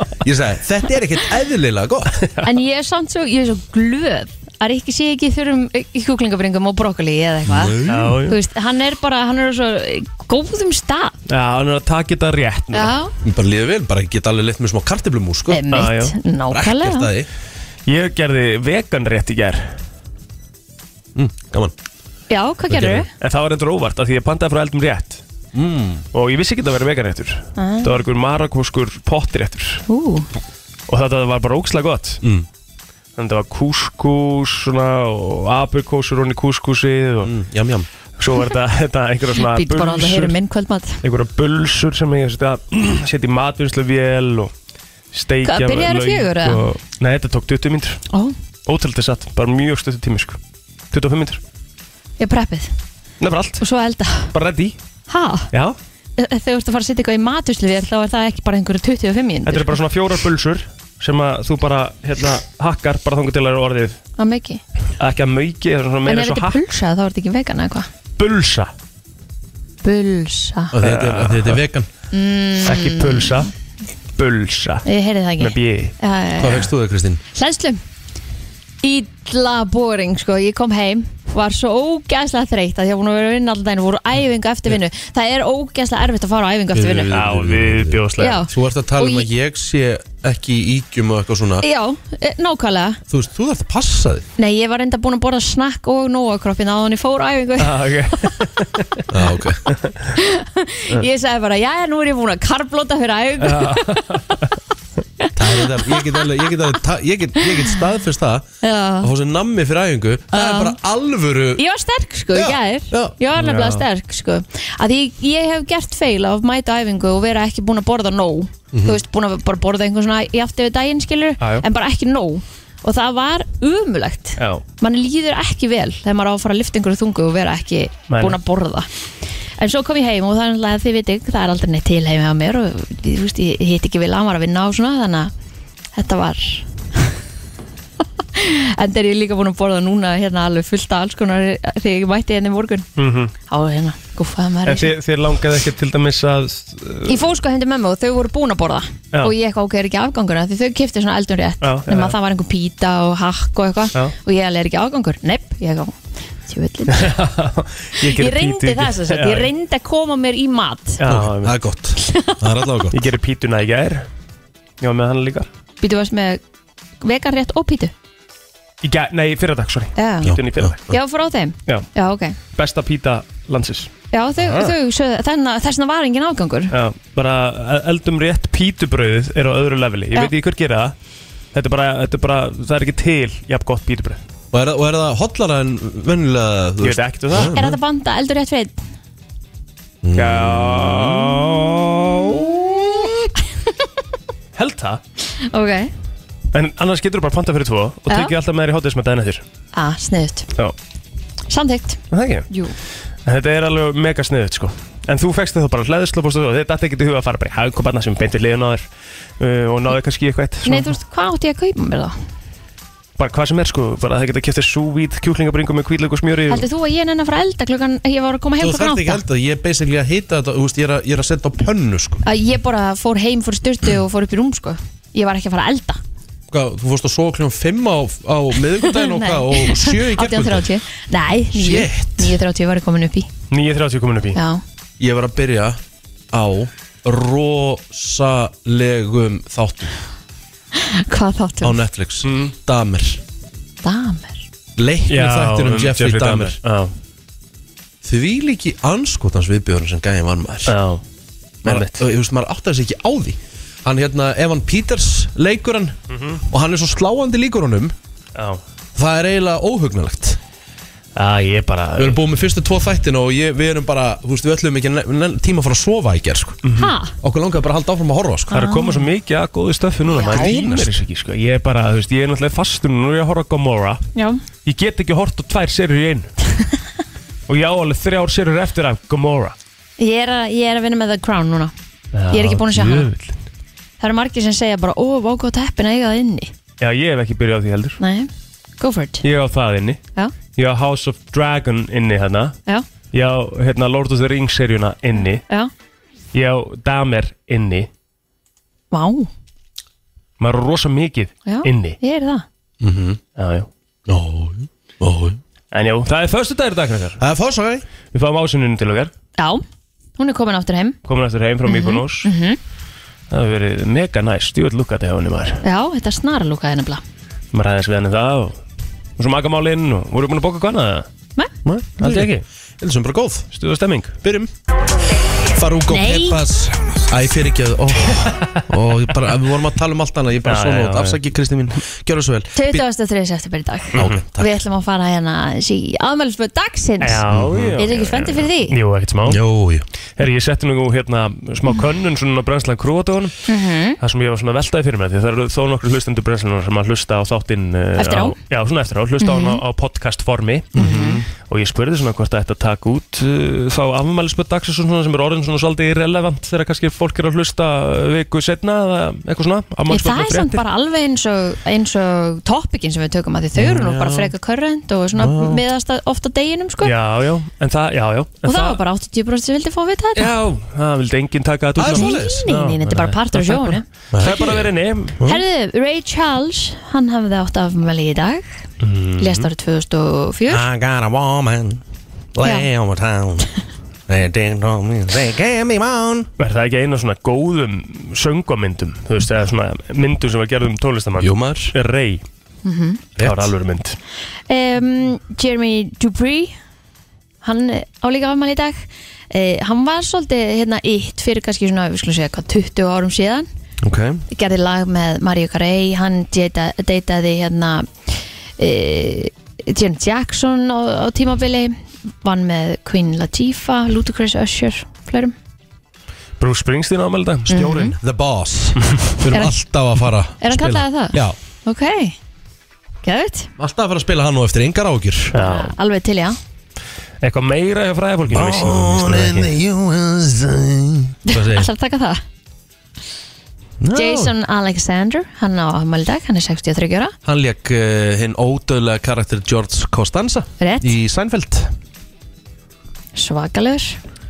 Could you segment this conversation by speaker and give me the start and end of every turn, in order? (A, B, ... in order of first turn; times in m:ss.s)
0:00.2-0:02.2 A
0:02.4-0:11.2 B
0:07.5-0:08.2 A
0:07.9-0:08.4 C
0:11.3-0:12.9 C
0:12.7-0:13.1 B
0:13.2-0:15.6 A
0:15.5-0:17.1 B
0:15.7-0:16.2 C
0:16.5-0:17.3 A
0:17.9-0:19.8 C
0:21.2-0:21.7 A
0:22.3-0:23.1 B
0:22.7-0:25.2 C
0:25.5-0:26.1 A
0:26.1-0:29.8 C
0:27.6-0:27.9 B
0:29.9-0:30.3 B
0:30.9-0:32.2 C
0:32.2-0:32.5 A
0:33.2-0:37.3 C
0:37.2-0:37.9 A
0:38.2-0:40.4 C
0:39.4-0:41.0 B
0:41.0-0:44.5 C
0:45.1-0:48.0 C
0:45.4-0:46.6 B
0:48.7-0:50.4 C
0:50.9-0:51.4 C
0:52.2-0:52.7 B
0:53.2-0:53.6 C
0:53.6-0:54.3 B
0:54.3-0:54.8 C
0:55.1-0:55.5 B
0:55.5-0:55.8 C
0:56.2-0:59.8 B
0:59.4-1:04.0 C
1:04.2-1:04.6 B
1:05.0-1:06.6 C
1:06.0-1:07.9 B
1:08.2-1:08.7 C
1:09.8-1:10.7 B
1:10.7-1:11.9 A
1:10.8-1:11.6 C
1:12.1-1:13.5 B
1:12.6-1:13.5 C
1:14.2-1:14.9 C
1:14.8-1:16.7 B
1:15.4-1:15.9 C
1:16.4-1:17.2 A
1:17.3-1:17.8 B
1:18.8-1:27.1 B
1:26.7-1:31.6 A
1:27.1-1:28.5 C
1:28.2-1:29.3 B
1:31.6-1:33.0 B
1:33.1-1:34.3 A
1:34.4-1:37.8 B
1:37.6-1:39.0 C
1:39.1-1:39.7 A
1:39.7-1:40.1 C
1:40.1-1:44.4 B
1:43.4-1:44.5 C
1:45.2-1:46.6 B
1:45.4-1:48.5 A
1:47.4-1:47.7 B
1:48.6-1:49.1 B
1:49.0-1:51.6 A
1:50.3-1:50.8 B
1:51.6-2:08.9 B
1:52.3-1:53.2 A
1:53.4-1:53.8 C
1:58.7-1:59.0 A
2:01.4-2:01.6 C
2:04.4-2:04.6 C
2:08.1-2:08.4 C
2:09.6-2:15.3 B
2:16.0-2:17.1 B
2:18.3-2:22.9 B
2:23.0-2:23.3 C
2:23.5-2:24.9 B
2:24.7-2:27.2 C
2:27.1-2:37.2 B
2:31.6-2:32.2 C
2:36.9-2:39.5 C
2:38.0-2:41.0 B
2:41.0-2:41.6 C
2:41.1-2:43.1 A
2:42.0-2:42.4 B
2:42.9-2:44.1 C
2:44.8-2:45.5 C
2:45.8-2:46.4 B
2:47.0-2:47.9 B
2:48.8-2:50.8 C
2:50.0-2:50.3 B
2:50.2-2:51.0 A
2:50.9-2:52.4 B
2:52.6-2:54.7 C
2:54.1-2:56.7 B
2:56.7-3:01.0 C
3:01.5-3:04.2 C
3:04.5-3:07.8 A
3:06.8-3:07.5 C
3:07.5-3:08.8 B
3:10.0-3:11.4 A
3:10.1-3:12.5 C
3:14.6-3:15.0 C
3:15.4-3:15.9 B
3:16.5-3:19.4 C
3:19.7-3:20.5 B
3:21.5-3:22.8 B
3:22.1-3:22.5 C
3:23.3-3:28.8 C
3:29.4-3:31.0 C
3:30.6-3:32.2 B
3:33.2-3:36.7 C
3:36.5-3:39.2 B
3:38.6-3:42.2 A
3:42.2-3:46.0 B
3:46.5-3:50.7 A
3:48.8-3:53.3 B
3:51.5-3:52.4 A
3:53.5-3:54.4 C
3:54.4-3:54.6 B
3:55.0-3:55.8 A
3:56.3-3:59.9 A
4:00.8-4:01.8 B
4:01.6-4:03.2 A
4:02.2-4:02.5 C
4:03.8-4:04.4 B
4:04.8-4:06.6 A
4:05.1-4:06.9 C
4:08.0-4:10.8 A
4:10.7-4:11.0 C
4:11.6-4:12.0 C
4:11.6-4:16.0 A
4:16.1-4:16.4 C
4:16.5-4:18.0 A
4:18.4-4:18.6 C
4:19.0-4:20.4 A
4:21.2-4:22.2 C
4:22.0-4:26.6 A
4:26.6-4:26.9 C
4:26.8-4:27.1 B
4:27.2-4:28.6 A
4:28.5-4:29.1 B
4:28.5-4:34.0 C
4:30.1-4:30.5 B
4:30.2-4:30.9 A
4:34.2-4:34.4 B
4:34.6-4:36.3 C
4:37.5-4:39.6 C
4:40.0-4:41.7 B
4:42.1-4:43.4 C
4:42.3-4:43.1 B
4:44.0-4:46.5 B
4:46.8-4:48.0 C
4:48.0-4:49.2 B
4:49.2-4:50.0 C
4:50.6-4:52.6 C
4:53.1-4:55.4 C
4:56.3-4:57.9 C
4:58.9-4:59.3 B
5:00.4-5:02.0 C
5:01.5-5:02.4 B
5:02.8-5:03.2 A
5:03.4-5:03.7 C
5:04.1-5:05.4 A
5:05.7-5:07.2 C
5:07.2-5:07.8 A
5:08.1-5:09.1 C
5:09.4-5:09.6 B
5:10.2-5:11.0 B
5:11.1-5:12.3 C
5:11.6-5:12.6 B
5:13.3-5:15.6 C
5:15.6-5:17.0 B
5:17.5-5:18.6 C
5:19.2-5:21.1 C
5:21.7-5:22.4 C
5:21.7-5:23.5 A
5:23.5-5:24.2 C
5:24.2-5:24.5 A
5:25.5-5:32.8 A
5:25.9-5:26.4 B
5:28.2-5:28.6 C
5:30.4-5:31.2 C
5:32.6-5:37.2 B
5:33.9-5:34.2 C
5:34.0-5:34.6 A
5:37.0-5:39.4 C
5:37.3-5:37.8 A
5:37.8-5:38.8 B
5:39.3-5:39.8 A
5:40.2-5:43.3 C
5:43.5-5:44.0 B
5:44.0-5:50.8 C
5:48.0-5:48.4 B
5:49.2-5:49.6 B
5:50.7-5:51.3 A
5:50.8-5:51.2 B
5:51.3-6:00.6 C
5:59.9-6:06.9 B
6:03.6-6:04.3 A
6:05.2-6:05.6 A
6:06.8-6:08.8 C
6:08.4-6:10.3 B
6:10.2-6:15.4 C
6:11.8-6:12.5 A
6:11.9-6:13.8 B
6:14.1-6:14.7 A
6:15.2-6:18.5 B
6:18.8-6:19.5 C
6:19.2-6:20.6 B
6:20.5-6:21.8 A
6:22.3-6:23.5 A
6:22.4-6:22.7 B
6:24.1-6:26.3 A
6:26.4-6:32.2 C
6:31.2-6:31.7 A
6:32.6-6:33.0 B
6:33.2-6:33.5 A
6:33.2-6:34.0 C
6:34.5-6:36.6 B
6:37.4-6:43.5 B
6:43.8-6:44.2 A
6:44.3-6:55.4 B
6:56.4-6:57.8 C
6:57.5-7:01.4 A
6:57.5-6:58.0 B
7:00.4-7:02.2 B
7:03.0-7:03.5 B
7:03.6-7:05.4 A
7:05.3-7:05.7 C
7:05.4-7:06.4 B
7:07.2-7:09.5 C
7:08.3-7:11.7 A
7:11.3-7:12.2 B
7:13.8-7:14.3 A
7:13.9-7:17.2 B
7:17.2-7:21.7 A
7:20.6-7:21.0 B
7:23.2-7:24.0 B